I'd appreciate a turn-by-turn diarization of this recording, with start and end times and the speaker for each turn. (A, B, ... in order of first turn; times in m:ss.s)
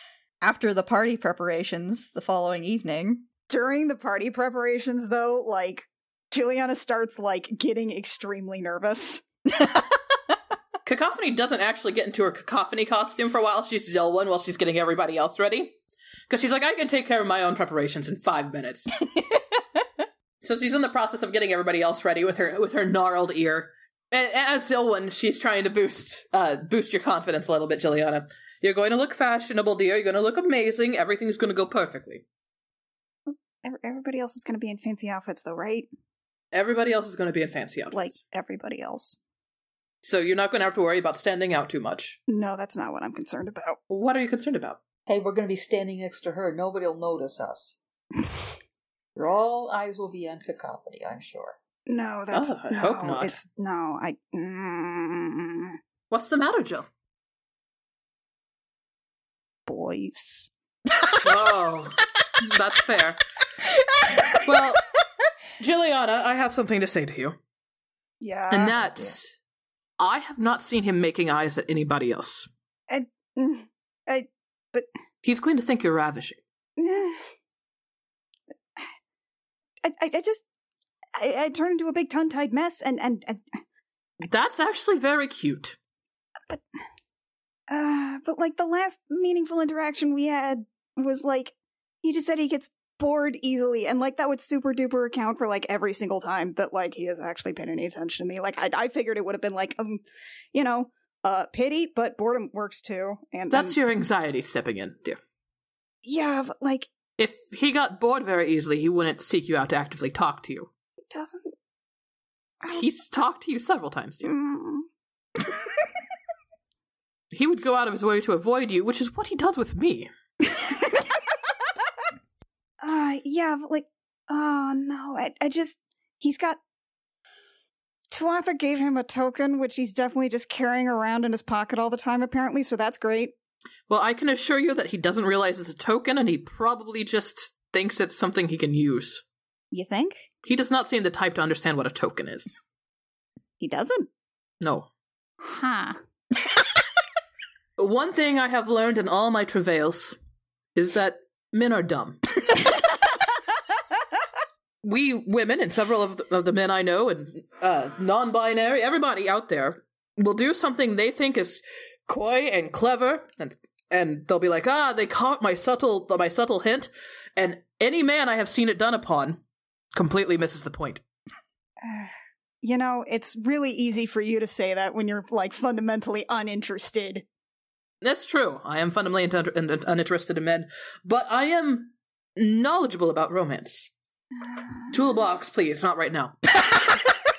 0:00.4-0:03.2 A
0:03.5-0:09.2 B
0:09.6-0:09.8 A
0:10.8-0:15.8 C
0:16.3-0:18.9 C
0:19.2-0:19.6 A
0:20.4-0:32.2 C
0:33.3-0:35.9 B
0:36.5-0:38.2 C
0:37.9-0:39.2 B
0:40.0-0:42.2 C
0:42.3-0:43.8 B
0:43.9-0:44.8 C
0:45.1-0:47.8 D
0:49.2-0:51.6 D
0:51.9-0:55.8 B
0:52.3-0:53.4 C
0:56.1-0:56.9 C
0:59.7-1:00.5 B
1:01.2-1:03.2 C
1:04.0-1:04.4 A
1:04.4-1:04.8 C
1:05.6-1:07.4 C
1:08.2-1:09.1 B
1:08.5-1:09.4 C
1:10.0-1:12.5 C
1:12.9-1:14.9 B
1:15.2-1:16.4 C
1:16.8-1:17.2 B
1:19.8-1:20.4 B
1:21.2-1:23.4 B
1:24.2-1:25.8 C
1:27.7-1:40.0 B
1:40.5-1:43.8 B
1:43.5-1:45.2 C
1:46.0-1:46.9 B
1:47.2-1:50.7 C
1:51.1-1:51.5 B
1:52.7-1:54.4 C
1:54.2-1:54.9 B
1:57.3-2:00.1 C
2:00.6-2:01.0 B
2:02.8-2:06.6 B
2:08.1-2:13.3 B
2:13.9-2:19.2 C
2:19.7-2:20.2 B
2:20.4-2:22.6 C
2:23.6-2:24.1 B
2:24.6-2:24.9 C
2:25.4-2:26.0 B
2:27.8-2:30.2 C
2:30.8-2:32.2 C
2:34.8-2:49.4 C
2:49.9-2:51.0 C
2:51.8-2:57.2 B
2:58.0-3:03.9 C
3:04.4-3:04.9 B
3:04.9-3:06.4 C